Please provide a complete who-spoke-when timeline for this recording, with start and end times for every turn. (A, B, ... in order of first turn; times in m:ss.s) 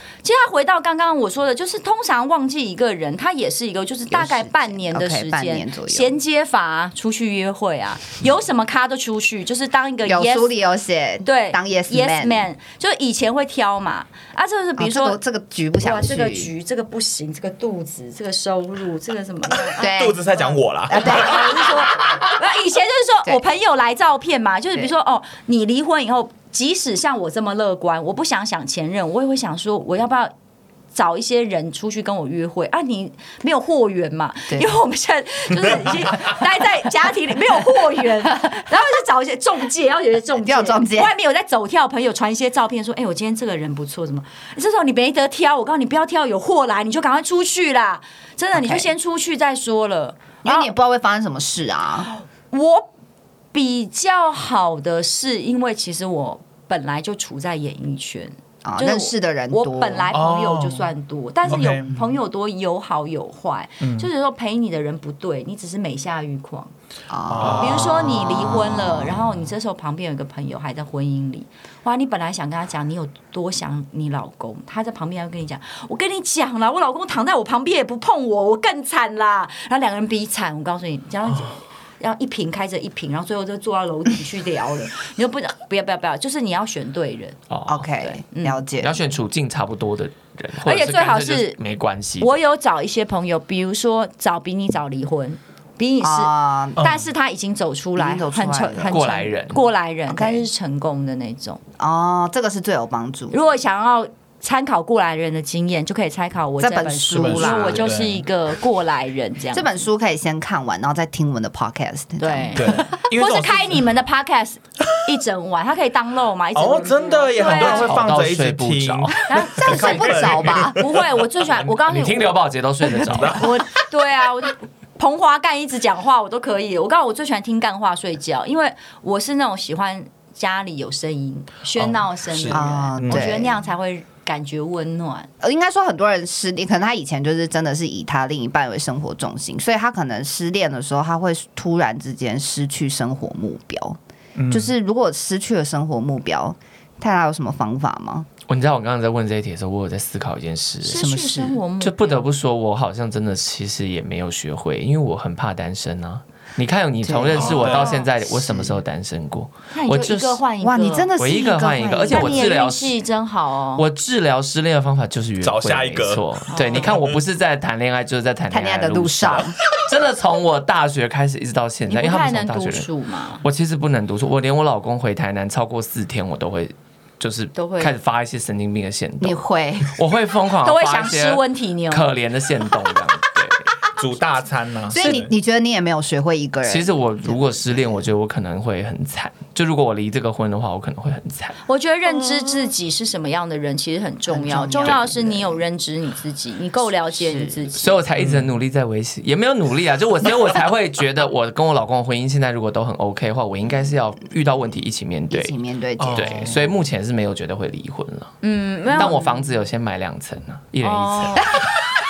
0:00.2-0:10.5 A
0:04.1-0:06.1 B
0:10.0-0:12.5 B
0:11.2-0:15.2 A
0:14.8-0:16.5 B
0:15.8-0:19.9 A
0:19.8-0:21.7 B
0:19.8-0:22.1 C
0:20.9-0:30.3 A
0:30.9-0:50.7 A
0:40.4-0:41.1 B
0:48.5-0:48.9 B
0:50.4-0:52.1 B
0:52.0-0:52.9 A
0:53.5-1:06.7 A
0:58.6-1:00.1 B
1:00.1-1:00.9 C
1:01.4-1:01.9 C
1:03.8-1:04.1 C
1:07.1-1:09.2 B
1:07.3-1:08.2 C
1:07.4-1:27.4 A
1:27.5-1:27.8 D
1:27.7-1:29.0 B
1:28.0-1:28.6 A
1:28.8-1:32.3 D
1:30.6-1:31.6 A
1:32.2-1:41.6 A
1:36.0-1:36.9 B
1:38.0-1:38.9 B
1:38.8-1:39.6 D
1:40.1-1:40.4 B
1:41.8-1:43.3 B
1:43.3-1:49.7 A
1:46.6-1:47.9 B
1:47.1-1:48.2 C
1:49.5-1:52.8 B
1:52.2-1:58.0 A
1:52.6-1:53.9 C
1:56.5-2:01.5 C
1:57.4-1:59.2 D
1:59.2-2:02.3 A
1:59.5-2:00.8 B
2:01.8-2:03.5 D
2:03.0-2:03.5 C
2:03.2-2:15.3 A
2:11.8-2:13.3 C
2:12.5-2:13.6 B
2:15.4-2:24.0 B
2:24.4-2:24.7 C
2:24.5-2:28.3 B
2:28.5-2:31.1 D
2:30.8-2:32.3 A
2:30.9-2:31.6 B
2:31.8-2:40.4 D
2:37.0-2:38.8 B
2:37.3-2:38.0 C
2:39.7-2:41.1 A
2:40.6-2:42.5 B
2:41.2-2:43.0 D
2:42.1-2:43.8 A
2:43.8-2:52.9 D
2:45.4-2:47.2 C
2:46.5-2:46.9 A
2:48.5-2:49.6 B
2:51.9-2:53.4 A
2:53.4-3:03.7 D
2:57.5-2:57.9 A
2:59.2-3:00.0 B
3:00.6-3:02.1 A
3:03.9-3:05.3 C
3:04.9-3:07.6 B
3:06.6-3:11.6 D
3:11.6-3:18.0 A
3:14.3-3:15.6 B
3:17.2-3:17.5 B
3:17.8-3:28.3 D
3:18.2-3:18.5 C
3:25.3-3:26.6 B
3:26.0-3:26.5 C
3:28.4-3:29.2 A
3:28.9-3:31.5 D
3:29.0-3:29.4 B
3:30.8-3:31.6 A